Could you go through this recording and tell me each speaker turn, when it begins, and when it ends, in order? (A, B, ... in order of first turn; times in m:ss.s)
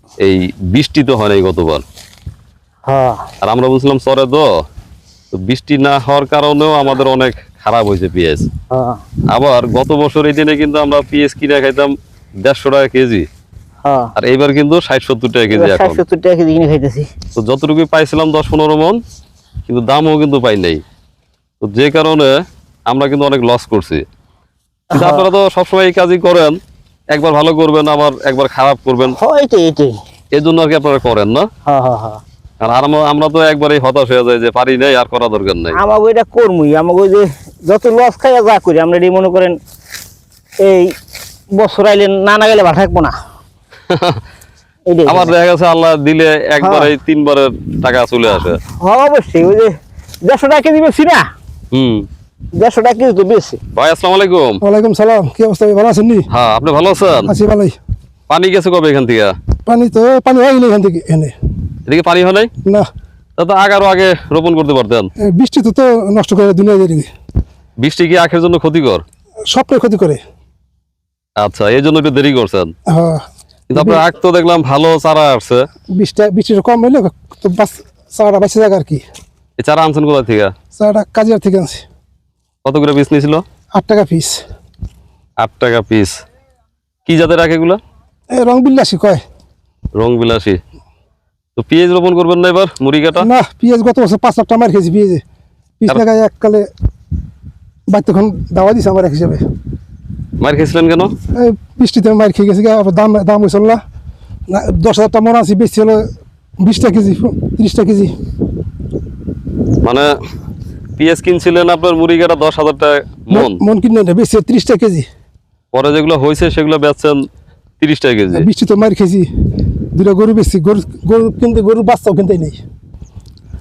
0:00.2-0:01.8 A
0:02.9-0:03.3 B
0:03.4-0:04.4 A
0:05.3-0:08.5 A
0:08.7-0:09.0 B
0:09.3-0:11.9 A
0:12.4-0:13.3 A
0:13.8-0:14.1 B
0:14.2-0:16.0 A
0:15.5-0:17.1 B
0:17.4-0:19.0 A
0:19.7-0:20.8 A
0:21.6-0:22.3 A
0:22.9-0:24.0 A
0:24.9-0:25.3 B
0:24.9-0:26.6 A
0:27.1-0:29.2 A
0:29.1-0:30.0 B
0:30.4-0:31.4 A
0:31.6-0:32.2 B
0:32.6-0:35.8 A
0:35.8-0:39.6 B
0:40.6-0:40.9 B
0:41.6-0:43.1 B
0:43.9-0:44.2 A
0:44.9-0:45.3 B
0:45.1-0:48.6 A
0:46.6-0:46.9 B
0:48.8-0:51.2 B
0:51.7-0:52.1 A
0:52.6-0:53.6 B
0:53.8-0:54.6 A
0:54.6-0:56.3 C
0:56.3-0:57.3 A
0:57.2-0:57.8 C
0:58.3-0:59.3 A
0:59.6-1:01.3 C
1:01.9-1:02.5 A
1:03.4-1:05.1 A
1:05.2-1:07.1 C
1:07.8-1:09.0 A
1:09.5-1:10.2 C
1:11.4-1:12.7 A
1:12.9-1:14.0 C
1:13.7-1:15.6 A
1:16.0-1:19.0 C
1:19.6-1:20.5 A
1:20.8-1:21.8 C
1:22.6-1:23.4 A
1:23.7-1:24.4 C
1:25.4-1:26.1 A
1:27.1-1:27.8 A
1:28.3-1:29.2 C
1:30.0-1:30.6 A
1:31.6-1:33.3 A
1:33.2-1:35.2 C
1:35.8-1:36.7 C
1:37.9-1:39.4 C
1:40.4-1:41.1 A
1:41.3-1:43.8 C
1:44.5-1:46.1 C
1:46.6-1:48.1 C
1:49.8-1:50.1 A
1:51.0-1:53.6 A
1:53.3-1:55.1 C
1:55.7-1:57.2 A
1:57.8-1:58.5 A
1:58.3-1:59.3 C
1:59.9-2:02.6 C